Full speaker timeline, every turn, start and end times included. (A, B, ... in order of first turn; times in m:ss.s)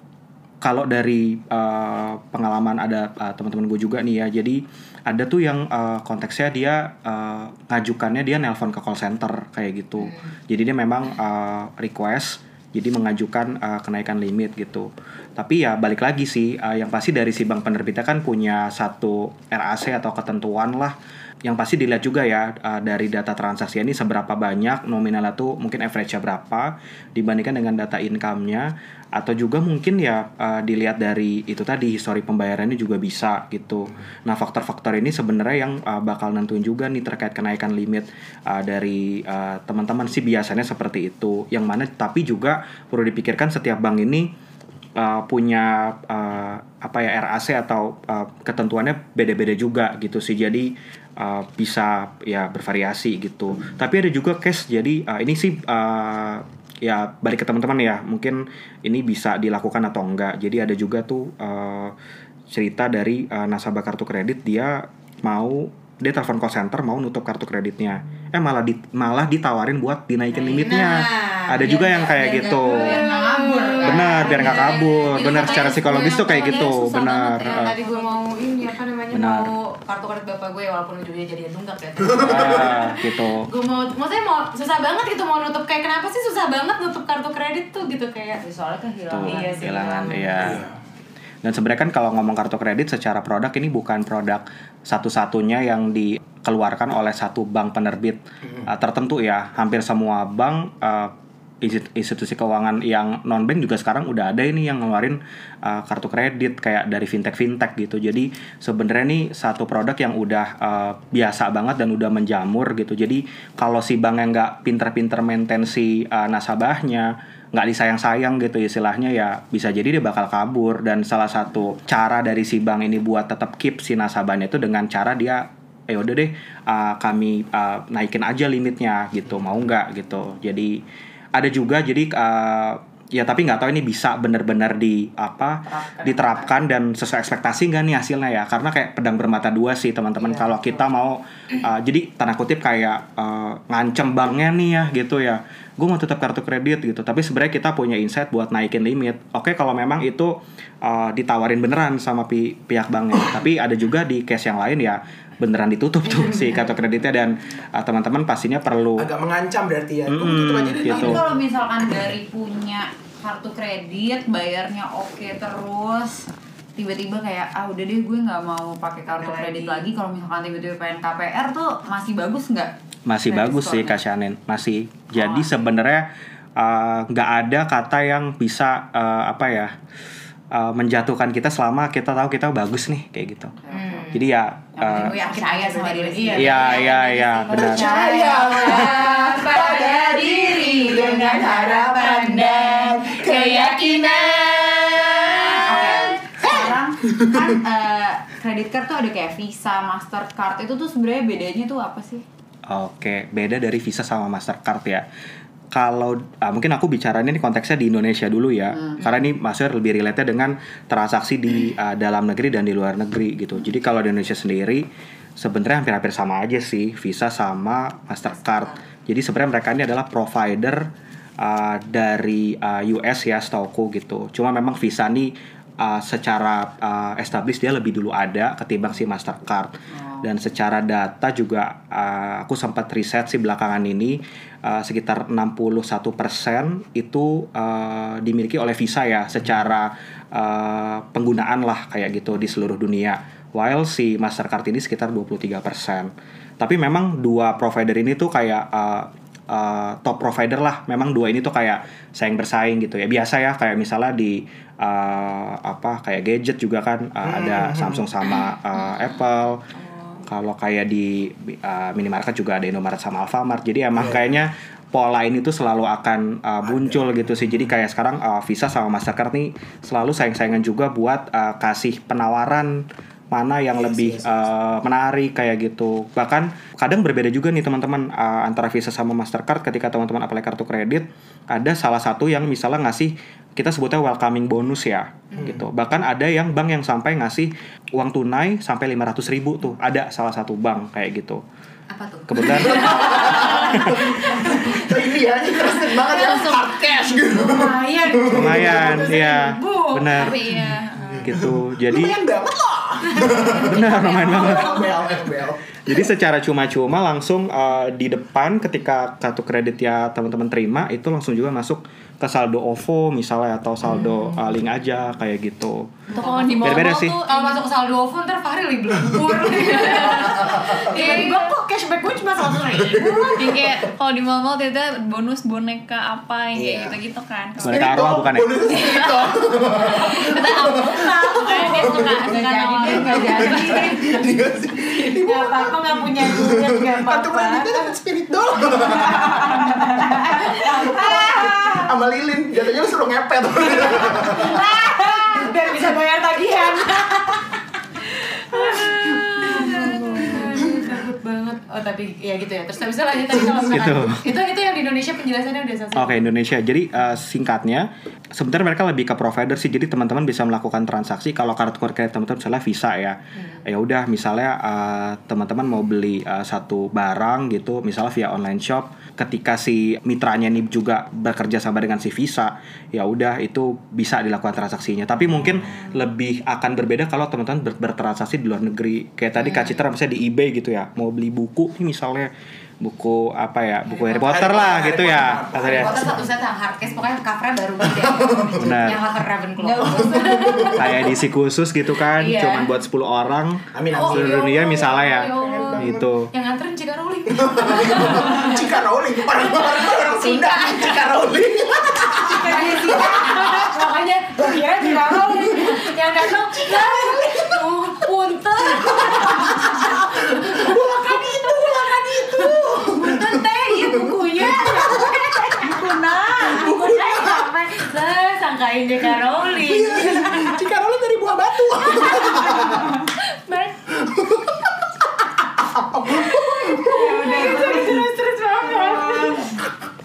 0:00.6-0:44.3 A
0:10.0-0:10.3 B
0:45.0-1:01.9 A
1:02.5-1:13.0 A
1:10.3-1:16.8 B
1:11.6-1:14.7 C
1:13.8-1:17.7 A
1:14.9-1:18.2 D
1:17.4-1:28.4 B
1:19.1-1:19.5 A
1:22.0-1:22.5 E
1:22.1-1:23.5 A
1:28.4-1:29.8 C
1:29.1-1:30.7 A
1:29.2-1:30.6 B
1:30.4-1:30.8 E
1:31.4-2:10.8 A
2:11.3-2:39.1 A
2:15.6-2:16.5 C
2:20.2-2:20.8 B
2:39.0-2:41.4 E
2:40.1-2:41.3 A
2:40.8-2:52.7 C
2:49.1-2:49.9 B
2:53.1-2:59.7 A
2:53.2-2:54.0 C
2:55.1-2:55.5 C
3:00.5-3:03.5 A
3:03.6-3:04.1 C
3:03.7-3:04.2 B
3:04.1-3:05.1 A
3:04.7-3:22.2 C
3:04.9-3:16.2 B
3:06.4-3:08.0 A
3:07.5-3:13.8 E
3:16.4-3:17.4 E
3:22.7-3:25.0 A
3:25.7-4:19.6 A
3:28.7-3:29.0 C
3:38.3-3:38.8 B
3:49.9-3:50.3 C
4:17.2-4:18.1 E
4:18.8-4:19.1 D
4:19.7-4:20.2 D
4:20.3-4:51.4 A
4:23.9-4:24.3 E
4:26.6-4:27.7 E
4:33.7-4:34.5 E
4:51.9-5:00.4 B
4:52.3-4:54.1 A
4:52.7-4:59.3 E
4:58.3-5:00.6 A
5:00.1-5:01.4 D
5:01.2-5:02.2 A
5:01.3-5:05.8 E
5:03.1-5:04.9 B
5:03.5-5:05.0 A
5:05.9-5:16.0 A
5:16.1-5:23.7 B
5:16.1-5:17.6 D
5:16.6-5:17.2 A
5:19.1-5:21.0 E
5:20.0-5:21.4 D
5:22.7-5:23.8 E
5:23.0-5:28.0 D
5:26.6-5:27.0 E
5:27.6-5:28.5 A
5:27.6-5:32.2 E
5:28.6-5:33.5 D
5:30.7-5:34.2 B
5:31.9-5:34.1 C
5:32.9-5:44.6 E
5:35.0-5:37.9 B
5:38.8-5:41.3 B
5:39.6-5:41.9 C
5:43.6-5:47.6 B
5:48.5-5:56.3 B
5:48.6-5:50.4 D
5:49.4-5:50.4 C
5:50.4-5:50.9 E
5:53.6-5:54.3 A
5:56.0-6:26.1 A
6:03.4-6:03.6 B
6:24.3-6:26.3 E
6:24.6-6:31.1 B
6:27.8-6:28.9 E
6:28.6-6:29.0 A
6:29.6-6:30.7 C
6:30.0-6:31.1 E
6:30.7-6:36.3 A
6:32.2-6:32.7 B
6:33.7-6:36.1 E
6:33.9-6:38.7 B
6:37.3-6:43.7 E
6:40.1-6:41.0 D
6:42.3-6:43.3 C
6:42.4-7:00.6 B
6:44.6-6:45.6 E
6:46.9-6:47.4 C
6:48.7-6:55.2 E
6:55.6-6:56.7 C
6:56.4-6:57.5 E
6:59.6-7:03.0 E
7:01.8-7:03.8 B
7:03.9-7:07.6 E
7:06.2-7:09.6 B
7:07.1-7:08.0 C
7:08.7-7:09.4 C